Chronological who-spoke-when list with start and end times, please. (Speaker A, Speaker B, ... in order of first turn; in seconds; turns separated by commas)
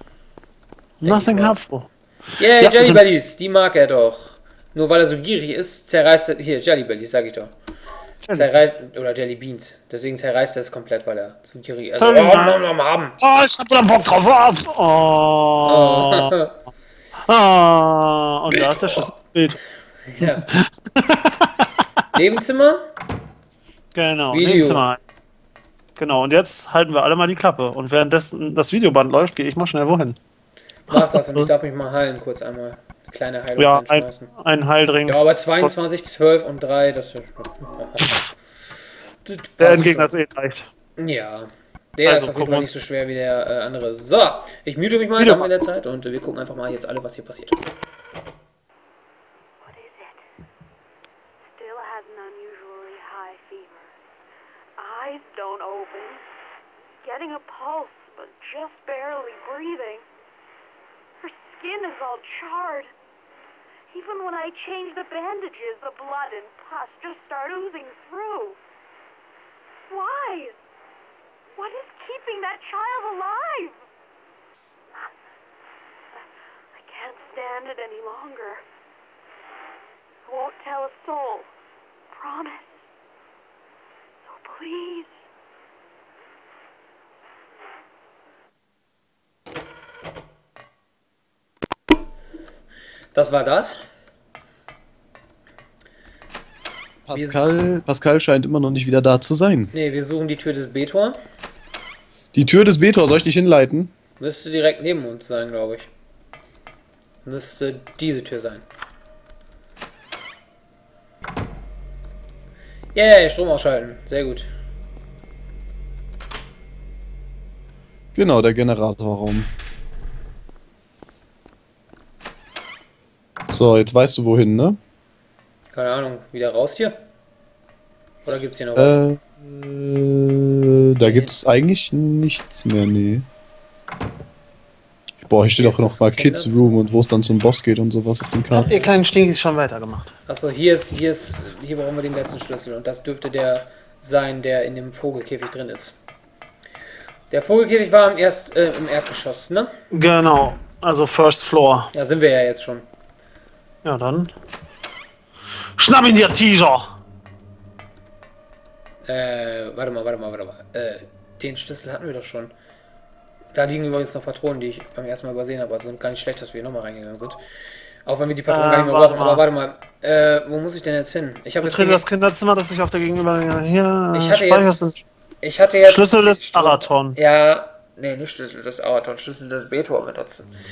Speaker A: 1.0-1.9, Speaker B: 1.0-1.6, Speaker B: 2.4-7.5, Speaker A: 2.6-3.0, Speaker B: 8.3-13.2, Speaker A: 12.0-12.6, Speaker A: 13.2-16.3, Speaker B: 15.6-16.6, Speaker A: 17.3-19.6, Speaker B: 20.1-20.5, Speaker A: 20.2-21.7, Speaker B: 22.1-22.9, Speaker A: 23.9-25.0, Speaker B: 24.3-24.9, Speaker A: 26.0-30.2, Speaker B: 30.9-34.3, Speaker A: 30.9-31.5, Speaker A: 33.6-35.7, Speaker B: 35.1-38.4, Speaker B: 39.2-40.1, Speaker A: 39.6-40.7, Speaker B: 41.0-47.6, Speaker A: 42.0-42.7, Speaker A: 45.2-45.5, Speaker C: 49.6-50.3, Speaker C: 51.5-53.9, Speaker C: 54.8-56.2, Speaker C: 57.0-60.1, Speaker C: 61.2-62.9, Speaker C: 63.9-68.6, Speaker C: 69.9-70.6, Speaker C: 71.5-73.8, Speaker C: 76.1-78.7, Speaker C: 80.3-81.5, Speaker C: 82.1-82.9, Speaker C: 84.2-85.2, Speaker B: 93.2-93.8, Speaker D: 97.1-99.7, Speaker B: 97.1-97.4, Speaker B: 99.7-101.2, Speaker D: 102.3-103.9, Speaker B: 104.2-105.9, Speaker B: 107.2-108.7, Speaker B: 113.0-114.5, Speaker D: 118.2-119.5, Speaker D: 123.5-124.8, Speaker B: 125.7-127.0, Speaker B: 128.2-129.0, Speaker D: 128.8-133.3, Speaker B: 131.0-131.3, Speaker D: 135.2-138.8, Speaker B: 135.6-136.8, Speaker B: 138.5-138.9, Speaker A: 138.6-140.1, Speaker B: 140.3-146.0, Speaker B: 147.3-149.7, Speaker A: 149.9-151.9, Speaker B: 151.9-152.9, Speaker A: 153.8-154.3, Speaker A: 155.8-156.9, Speaker B: 159.1-162.5, Speaker B: 163.5-167.4, Speaker B: 168.1-172.0, Speaker A: 168.5-169.4, Speaker A: 171.6-175.0, Speaker B: 174.1-180.5, Speaker A: 175.8-177.2